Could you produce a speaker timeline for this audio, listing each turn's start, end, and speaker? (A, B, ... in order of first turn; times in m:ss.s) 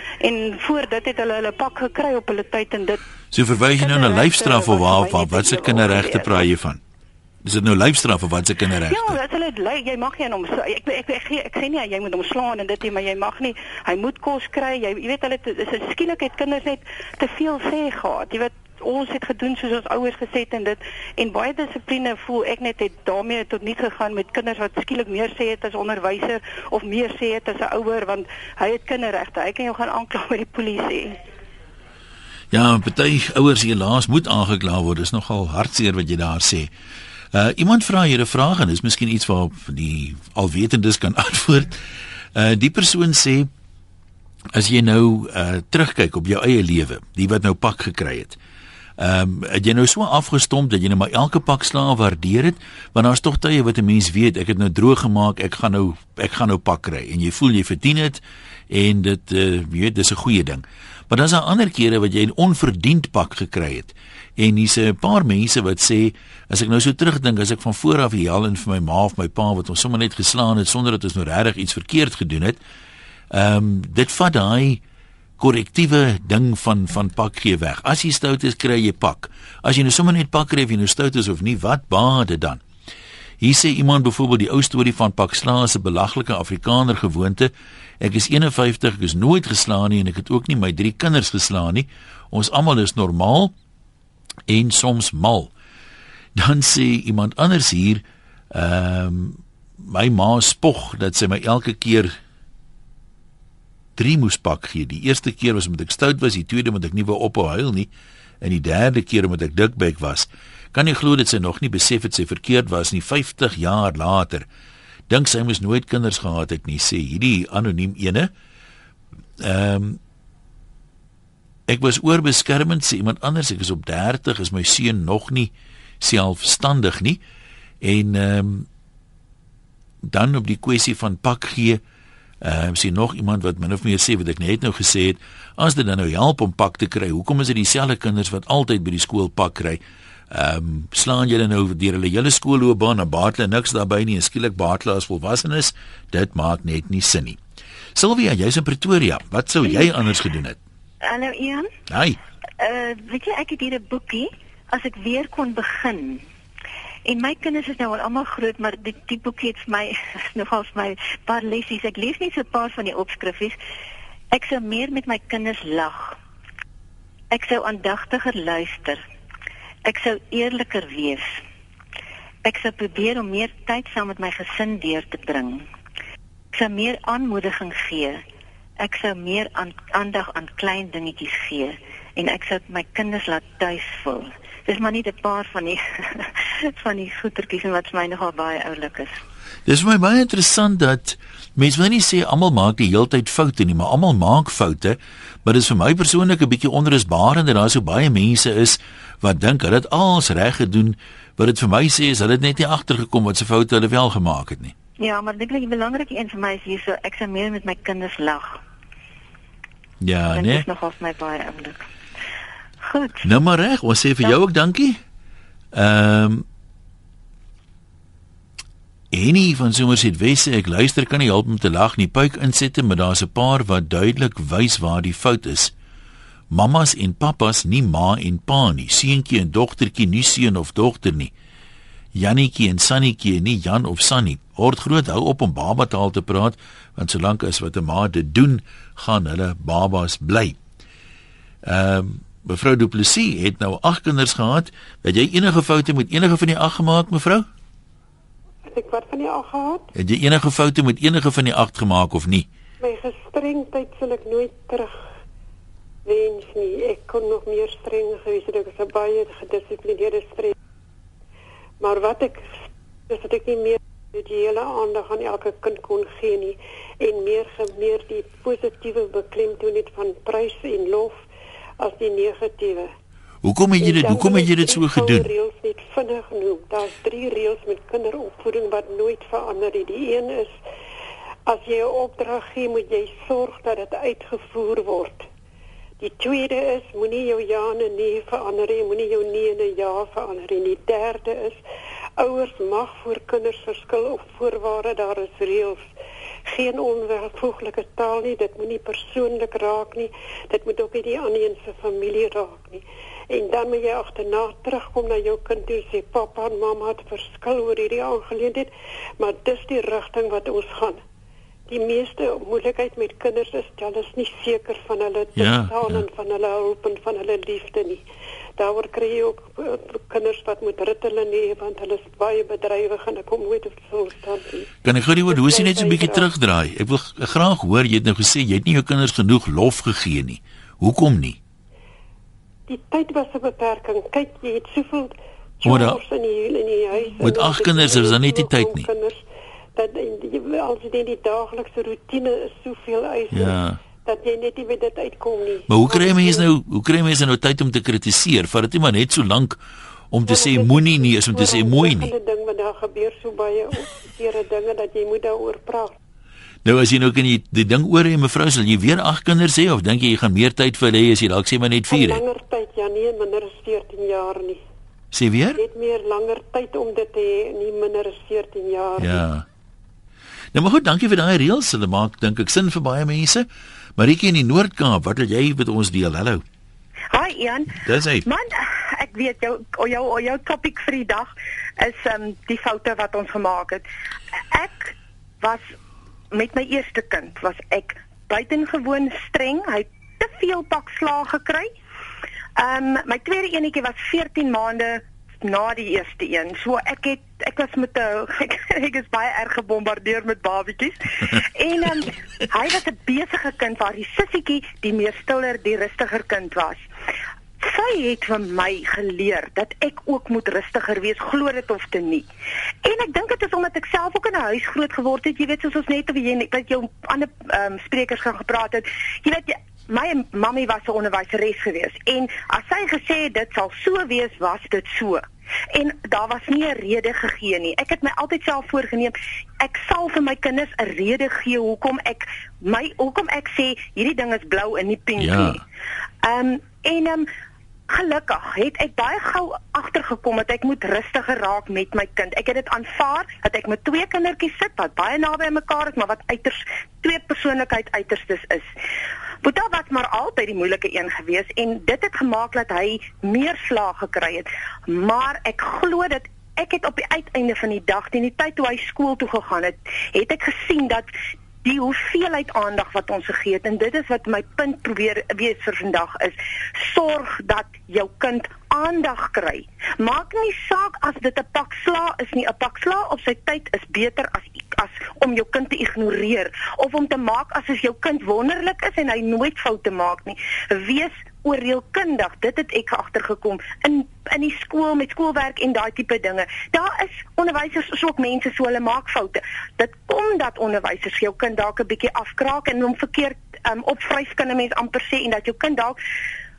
0:00.2-0:03.0 A
0:03.3-0:06.8 B
0:03.7-0:06.5 A
0:07.4-0:09.2 B
0:08.9-0:31.2 A
0:32.5-0:36.7 B
0:37.3-0:41.8 B
0:42.4-0:43.5 B
0:44.5-0:48.4 B
0:49.0-1:12.6 B
1:13.3-1:14.8 B
1:15.4-1:22.6 B
1:23.4-1:33.5 B
1:34.5-1:35.5 B
1:36.4-1:42.2 B
1:44.0-1:54.5 B
1:55.1-1:58.3 B
1:59.4-2:00.0 B
2:01.7-2:07.2 B
2:07.8-2:08.7 B
2:10.0-2:11.8 B
2:12.4-2:27.4 B
2:28.0-2:30.6 B
2:31.0-2:31.7 C
2:31.9-2:32.2 B
2:32.6-2:36.2 C
2:37.1-2:43.6 C
2:44.3-2:46.2 C
2:47.3-2:49.0 C
2:49.8-2:51.3 C
2:52.4-2:55.7 C
2:56.5-2:58.2 C
2:58.8-3:09.2 C
3:09.7-3:24.7 B
3:25.0-3:28.6 C
3:30.0-3:30.7 B
3:30.3-3:31.8 C
3:32.8-3:33.3 C
3:33.2-3:35.0 B
3:35.7-3:36.4 B
3:39.1-3:45.7 B
3:46.5-3:51.3 B
3:52.2-4:00.6 B
4:01.6-4:07.5 B
4:08.6-4:09.9 D
4:10.0-4:12.5 B
4:12.8-4:14.9 D
4:16.0-4:20.5 D
4:21.8-4:22.5 D
4:23.1-4:31.2 D
4:31.8-4:32.9 D
4:33.4-4:35.3 B
4:33.8-4:40.6 D
4:41.5-4:45.3 D
4:46.0-4:51.6 D
4:52.2-4:55.9 D
4:56.5-5:11.0 D
5:11.7-5:18.0 D
5:15.4-5:16.1 B
5:18.6-5:24.7 D
5:24.8-5:31.4 B
5:25.2-5:26.3 D
5:32.7-5:39.2 D
5:35.6-5:36.0 B
5:37.2-5:38.9 B
5:39.8-5:46.5 D
5:43.3-5:43.8 B
5:45.7-5:49.6 B
5:50.1-5:52.1 B
5:50.3-5:56.0 D
5:56.6-6:02.2 B
6:01.9-6:04.6 D
6:05.1-6:05.6 B
6:05.6-6:09.2 D
6:09.0-6:09.4 B
6:10.5-6:16.4 B
6:17.1-6:23.8 E
6:17.7-6:18.3 B
6:24.5-6:25.7 E
6:26.3-6:31.7 E
6:32.6-6:46.9 E
6:47.6-6:52.3 E
6:52.8-7:15.6 E
7:15.2-7:15.6 B
7:16.2-7:17.3 E
7:17.9-7:28.7 E
7:29.4-7:41.1 E
7:41.6-8:16.0 E